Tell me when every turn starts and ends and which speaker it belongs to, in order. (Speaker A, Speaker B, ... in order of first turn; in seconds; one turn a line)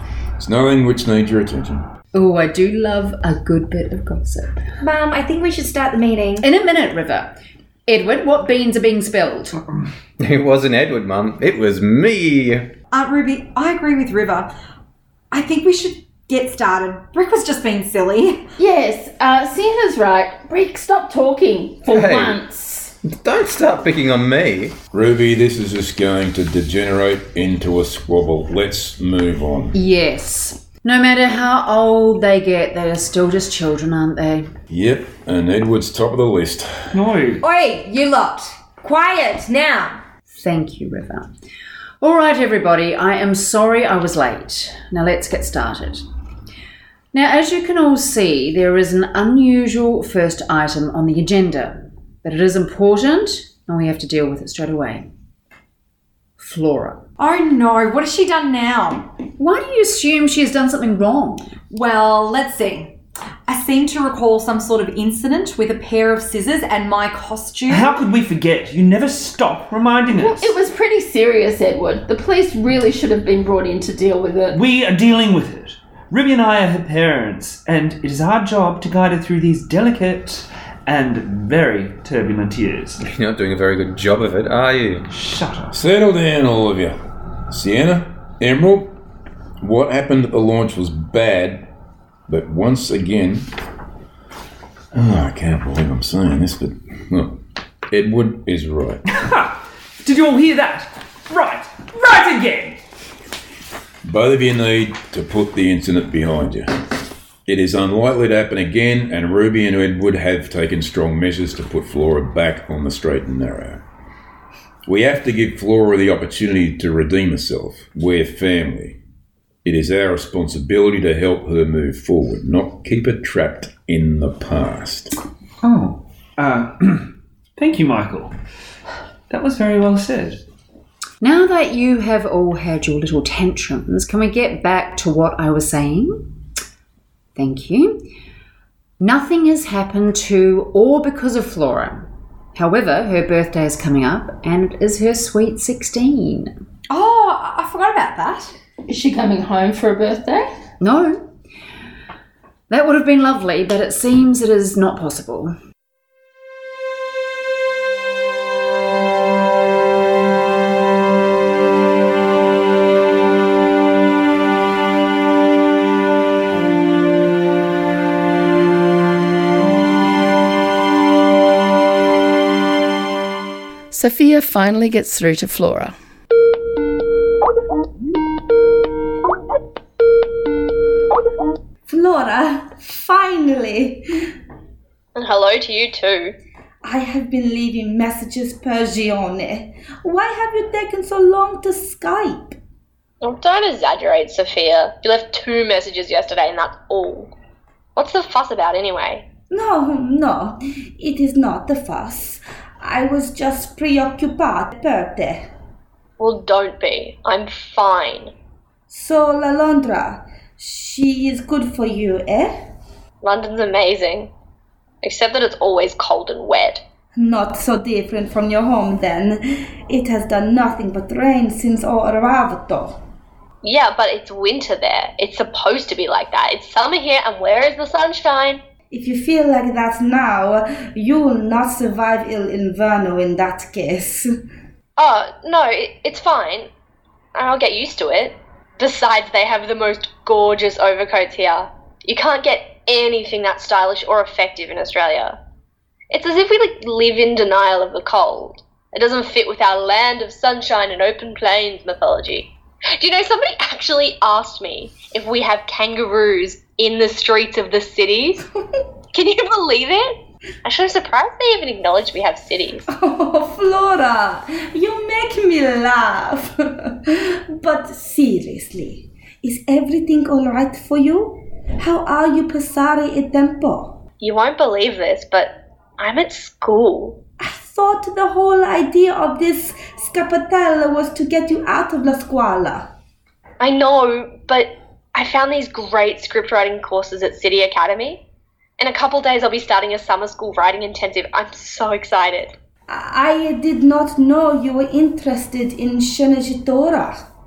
Speaker A: 0.4-1.9
Speaker B: 2.1-4.6
Speaker C: 4.8-6.4
Speaker B: 6.4-9.6
Speaker D: 10.2-12.7
Speaker E: 12.9-14.5
Speaker E: 15.3-18.4
Speaker F: 18.6-22.9
Speaker D: 21.8-22.4
Speaker D: 23.0-24.8
Speaker A: 24.9-29.8
Speaker B: 29.7-34.5
Speaker A: 34.7-36.9
Speaker G: 36.9-37.4
Speaker C: 37.4-40.0
Speaker B: 40.3-41.3
Speaker B: 42.0-46.0
Speaker B: 47.1-55.1
Speaker B: 56.4-57.0
Speaker E: 57.2-59.1
Speaker B: 59.4-61.5
Speaker E: 61.7-68.0
Speaker G: 67.7-70.5
Speaker F: 70.2-74.6
Speaker G: 74.5-83.0
Speaker D: 83.0-85.1
Speaker G: 85.1-85.7
Speaker A: 85.7-87.0
Speaker A: 87.5-88.9
Speaker A: 89.6-91.7
Speaker A: 92.3-93.5
Speaker A: 94.9-97.4
Speaker A: 97.9-99.0
Speaker G: 99.1-102.8
Speaker A: 104.0-106.7
Speaker A: 107.5-113.8
Speaker A: 114.8-119.0
Speaker A: 119.6-125.1
Speaker G: 125.6-128.3
Speaker G: 129.3-130.4
Speaker B: 131.2-136.3
Speaker B: 137.3-138.0
Speaker B: 139.0-146.5
Speaker E: 146.9-148.5
Speaker F: 148.9-150.5
Speaker B: 150.8-151.3
Speaker B: 152.7-155.5
Speaker H: 173.9-175.9
Speaker I: 181.9-184.1
Speaker J: 185.1-186.3
Speaker I: 186.8-192.6
Speaker J: 193.2-197.3
Speaker J: 197.9-199.3
Speaker I: 199.5-205.5
Speaker J: 206.2-208.3
Speaker I: 208.9-212.6
Speaker J: 213.2-214.3
Speaker J: 215.0-216.8
Speaker I: 217.2-223.0
Speaker J: 223.6-228.6
Speaker I: 228.9-234.3
Speaker J: 235.0-236.7
Speaker J: 237.3-245.4
Speaker J: 246.1-258.4
Speaker J: 259.1-262.9
Speaker I: 262.9-274.0
Speaker J: 274.2-277.2
Speaker I: 277.4-282.9
Speaker J: 283.6-288.2
Speaker J: 288.8-292.5
Speaker I: 292.9-297.2